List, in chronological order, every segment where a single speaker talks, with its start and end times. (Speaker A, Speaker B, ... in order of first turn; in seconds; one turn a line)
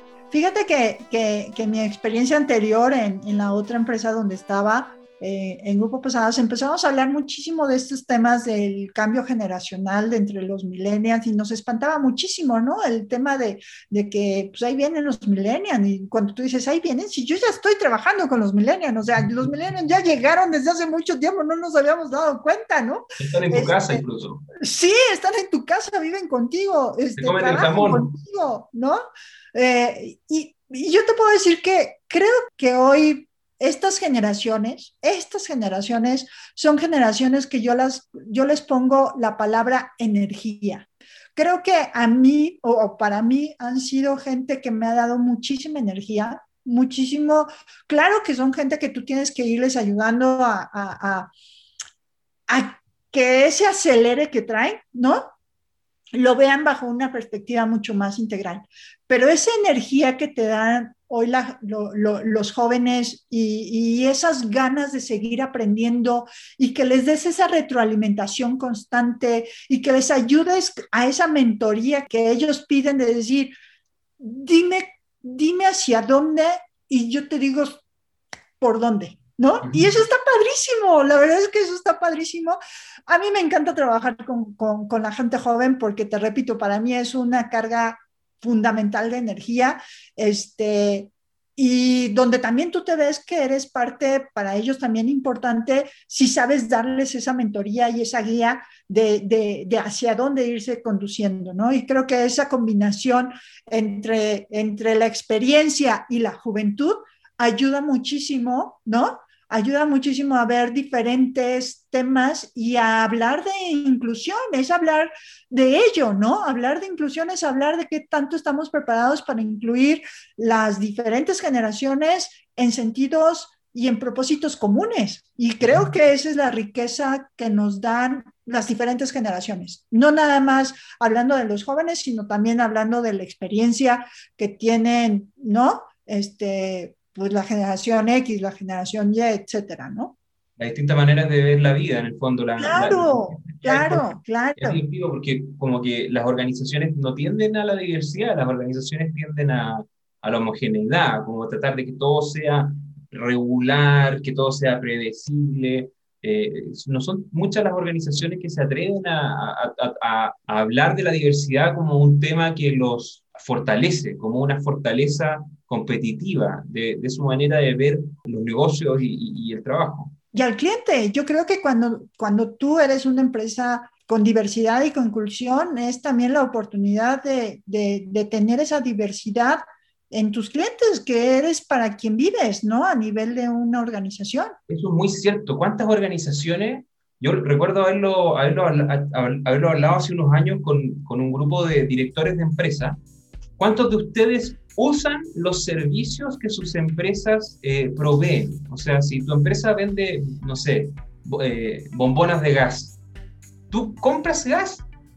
Speaker A: 0.3-24.0
Speaker B: 23.2-24.4
Speaker A: 24.6-29.0
Speaker B: 27.2-28.1
Speaker A: 29.5-51.3
Speaker A: 52.5-55.3
Speaker A: 56.1-73.5
Speaker A: 74.2-77.8
Speaker A: 78.6-140.2
Speaker B: 79.7-79.9
Speaker B: 140.6-170.2
Speaker A: 142.6-144.8
Speaker A: 170.3-184.5
Speaker B: 184.7-193.0
Speaker B: 193.6-203.0
Speaker B: 203.7-204.9